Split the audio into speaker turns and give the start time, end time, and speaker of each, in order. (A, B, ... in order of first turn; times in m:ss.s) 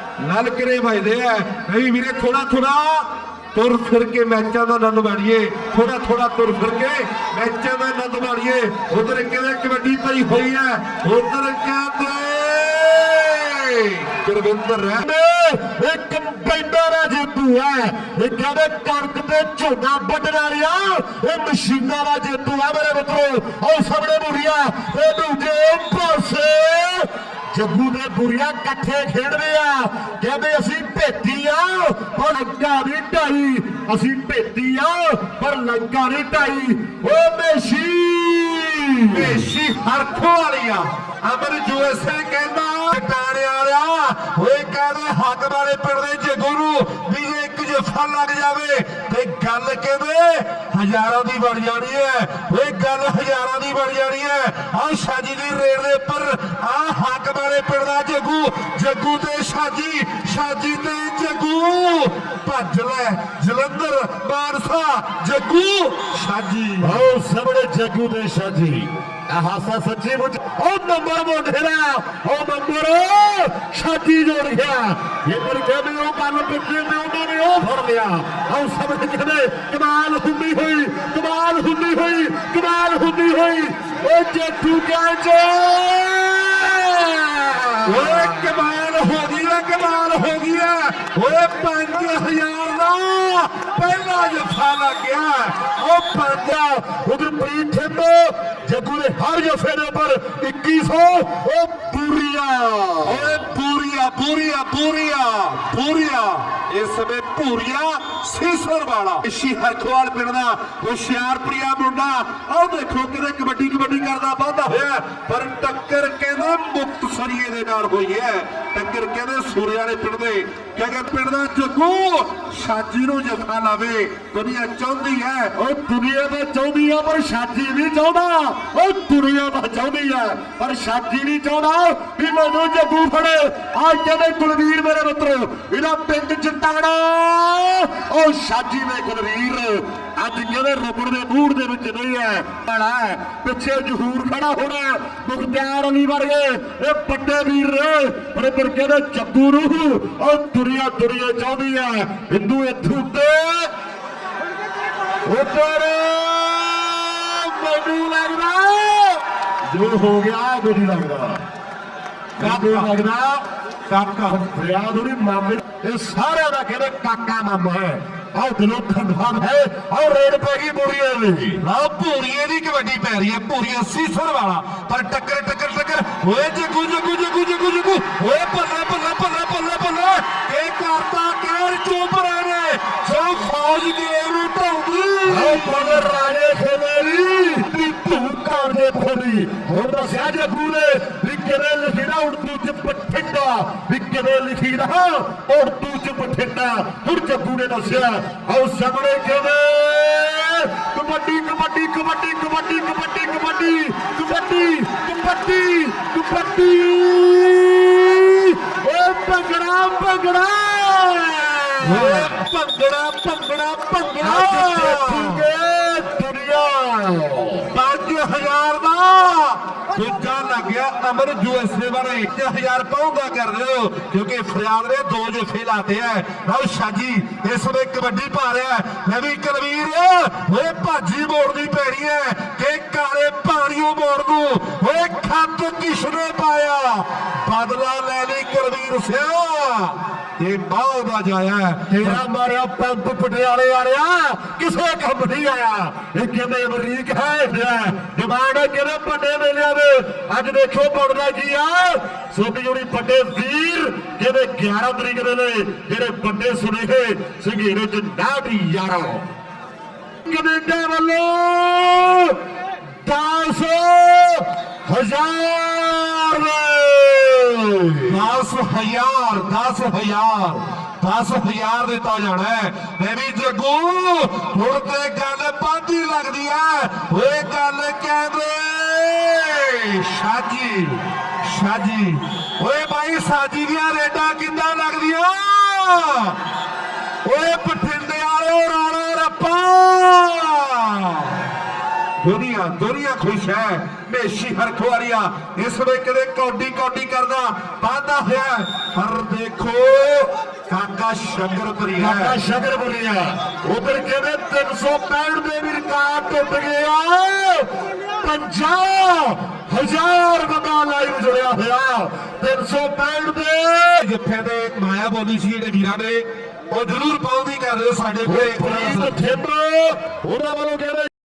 0:00.2-0:15.0 A
0:15.0-0:39.4 B
0:39.1-1:07.0 A
1:06.8-1:28.1 B
1:27.8-1:35.7 A
1:35.8-1:43.2 B
1:43.0-2:05.5 A
2:05.5-2:33.7 B
2:35.2-2:41.4 B
2:42.4-2:42.9 A
2:42.4-2:43.4 B
2:43.9-2:44.4 A
2:44.3-2:51.6 B
2:51.6-3:06.1 A
3:05.3-3:32.4 B
3:31.8-3:35.4 A
3:34.2-3:37.7 B
3:37.7-4:02.2 A
4:01.9-4:19.3 B
4:20.2-4:22.4 B
4:23.0-4:28.1 B
4:28.1-4:46.4 A
4:47.2-4:51.4 A
4:52.2-5:02.4 A
5:02.0-5:14.0 B
5:14.0-5:19.1 A
5:18.2-5:21.1 B